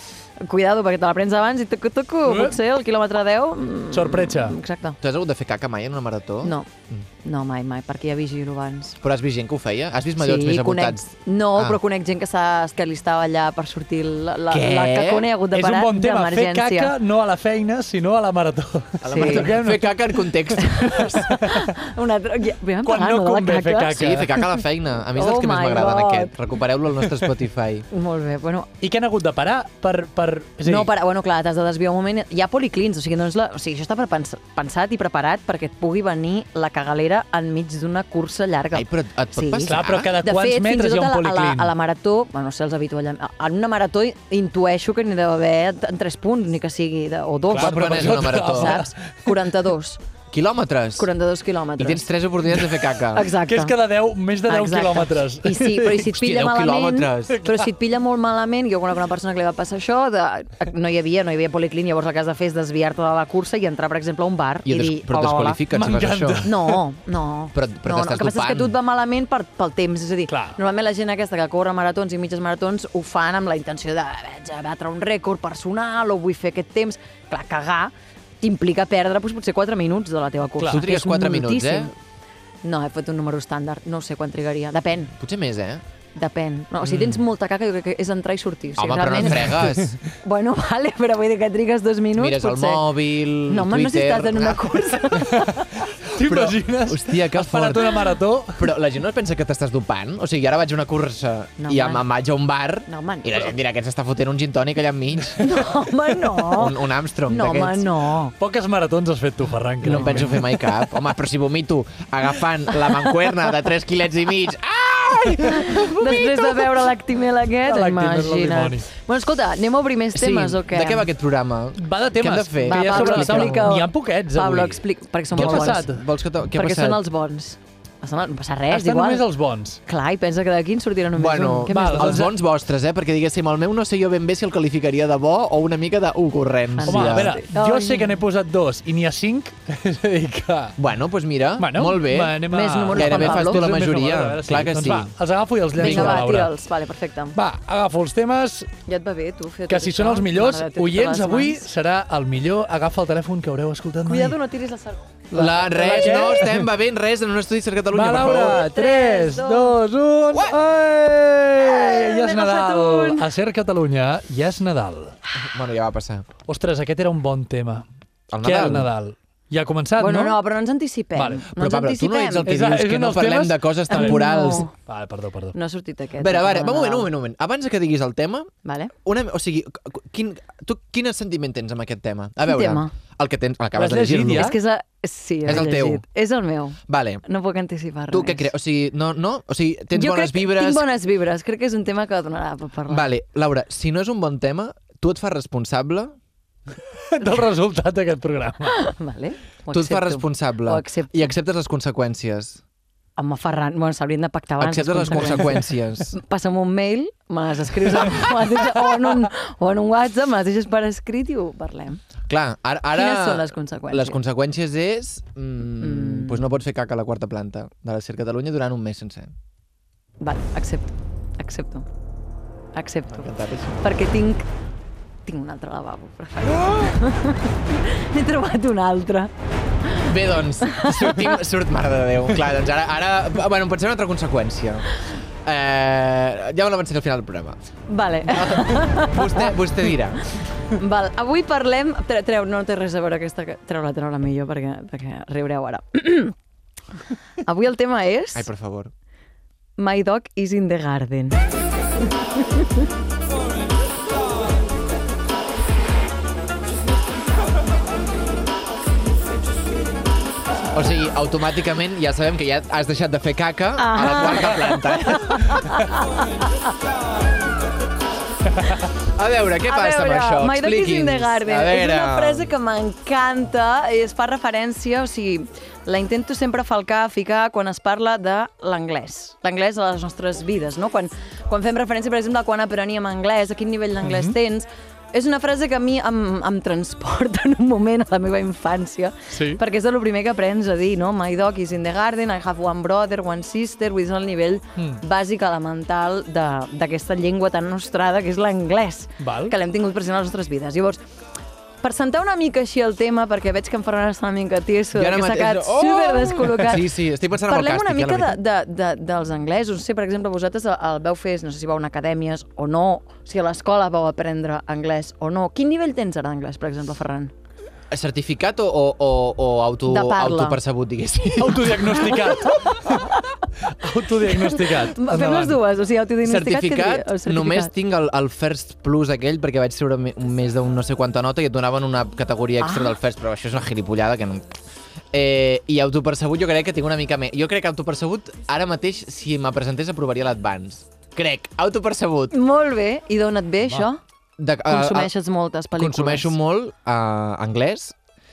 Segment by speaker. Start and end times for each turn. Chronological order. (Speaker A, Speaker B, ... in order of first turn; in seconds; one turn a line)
Speaker A: 0.4-5.0
Speaker B: 2.3-2.6
Speaker B: 3.9-4.6
Speaker C: 5.0-7.1
Speaker A: 6.4-6.7
Speaker A: 7.2-9.0
Speaker C: 9.0-11.8
Speaker A: 10.2-16.9
Speaker C: 14.5-15.3
Speaker B: 15.5-20.0
Speaker C: 19.0-21.3
Speaker A: 19.1-19.5
Speaker A: 20.6-24.0
Speaker B: 21.2-21.7
Speaker B: 22.9-24.5
Speaker C: 23.9-27.9
Speaker A: 25.1-26.3
Speaker A: 27.9-28.7
Speaker B: 28.8-30.9
Speaker A: 30.6-50.0
Speaker C: 38.7-40.1
Speaker B: 39.6-41.7
Speaker B: 47.5-48.9
Speaker C: 47.5-48.8
Speaker C: 50.3-51.1
Speaker A: 51.0-52.1
Speaker C: 51.8-53.3
Speaker A: 53.1-53.7
Speaker B: 53.4-56.0
Speaker A: 54.5-65.6
Speaker C: 56.0-57.4
Speaker B: 57.3-57.7
Speaker C: 64.7-66.5
Speaker B: 65.7-66.8
Speaker A: 66.4-81.9
Speaker C: 67.5-68.8
Speaker B: 70.3-70.6
Speaker B: 80.6-80.8
Speaker C: 80.7-81.9
Speaker A: 82.6-85.1
Speaker C: 85.2-85.8
Speaker A: 86.2-92.8
Speaker C: 86.8-87.2
Speaker C: 88.8-90.0
Speaker C: 92.2-94.8
Speaker A: 93.5-95.6
Speaker B: 95.4-98.7
Speaker C: 96.2-105.7
Speaker A: 101.6-102.0
Speaker A: 102.9-103.5
Speaker A: 105.4-106.7
Speaker C: 106.4-107.9
Speaker A: 107.3-108.3
Speaker B: 108.4-110.6
Speaker C: 109.8-116.6
Speaker A: 109.9-110.2
Speaker A: 115.5-121.1
Speaker B: 117.7-118.9
Speaker C: 120.2-123.7
Speaker B: 121.8-126.0
Speaker A: 122.6-125.9
Speaker C: 125.3-127.0
Speaker A: 126.5-129.2
Speaker B: 128.7-129.8
Speaker A: 129.9-132.2
Speaker C: 131.1-137.4
Speaker B: 131.7-132.3
Speaker A: 136.8-138.2
Speaker B: 136.9-140.8
Speaker C: 140.8-145.1
Speaker B: 141.6-146.5
Speaker A: 142.5-143.7
Speaker C: 145.8-146.3
Speaker A: 145.8-147.4
Speaker B: 147.3-148.7
Speaker A: 148.9-151.7
Speaker B: 149.7-154.4
Speaker A: 154.0-156.4
Speaker B: 155.3-156.7
Speaker C: 155.3-158.7
Speaker B: 157.9-165.2
Speaker A: 158.4-159.8
Speaker A: 161.6-163.3
Speaker C: 165.4-166.3
Speaker B: 166.5-167.9
Speaker C: 168.3-168.9
Speaker B: 168.4-170.4
Speaker A: 170.0-172.5
Speaker B: 171.2-171.4
Speaker C: 171.5-174.7
Speaker B: 172.5-174.2
Speaker A: 173.9-174.7
Speaker B: 174.8-175.6
Speaker A: 175.5-177.1
Speaker C: 176.2-178.5
Speaker A: 178.6-178.9
Speaker C: 179.0-184.6
Speaker A: 182.4-182.9
Speaker B: 183.8-184.6
Speaker A: 184.3-188.5
Speaker C: 185.5-186.0
Speaker C: 186.9-187.2
Speaker C: 188.1-190.9
Speaker A: 189.9-193.1
Speaker C: 192.9-196.2
Speaker B: 197.1-198.9
Speaker A: 198.8-201.3
Speaker C: 199.7-202.6
Speaker A: 203.2-205.5
Speaker C: 204.6-206.2
Speaker A: 206.1-212.0
Speaker C: 212.3-219.3
Speaker A: 212.9-214.2
Speaker A: 215.8-216.5
Speaker A: 220.2-221.9
Speaker A: 222.8-223.3
Speaker C: 223.1-223.8
Speaker A: 223.8-224.5
Speaker A: 225.3-229.3
Speaker A: 229.9-231.4
Speaker C: 230.0-234.9
Speaker C: 235.4-237.6
Speaker A: 237.9-239.6
Speaker C: 238.3-240.2
Speaker A: 240.7-246.3
Speaker A: 247.4-248.5
Speaker C: 248.3-248.9
Speaker A: 249.8-251.4
Speaker C: 260.7-265.8
Speaker A: 263.8-265.8
Speaker C: 269.1-272.5
Speaker A: 269.7-301.0
Speaker B: 284.0-284.4
Speaker B: 289.3-289.6
Speaker B: 299.2-299.6
Speaker A: 301.8-306.9
Speaker C: 304.9-308.4
Speaker A: 307.4-317.3
Speaker C: 317.9-322.3
Speaker A: 319.9-320.6
Speaker B: 321.4-323.0
Speaker A: 322.9-323.2
Speaker B: 323.7-325.6
Speaker A: 324.4-327.7
Speaker C: 326.2-334.6
Speaker A: 332.6-332.9
Speaker C: 335.1-342.4
Speaker A: 342.3-344.0
Speaker C: 344.4-345.1
Speaker A: 344.7-346.3
Speaker C: 345.8-347.9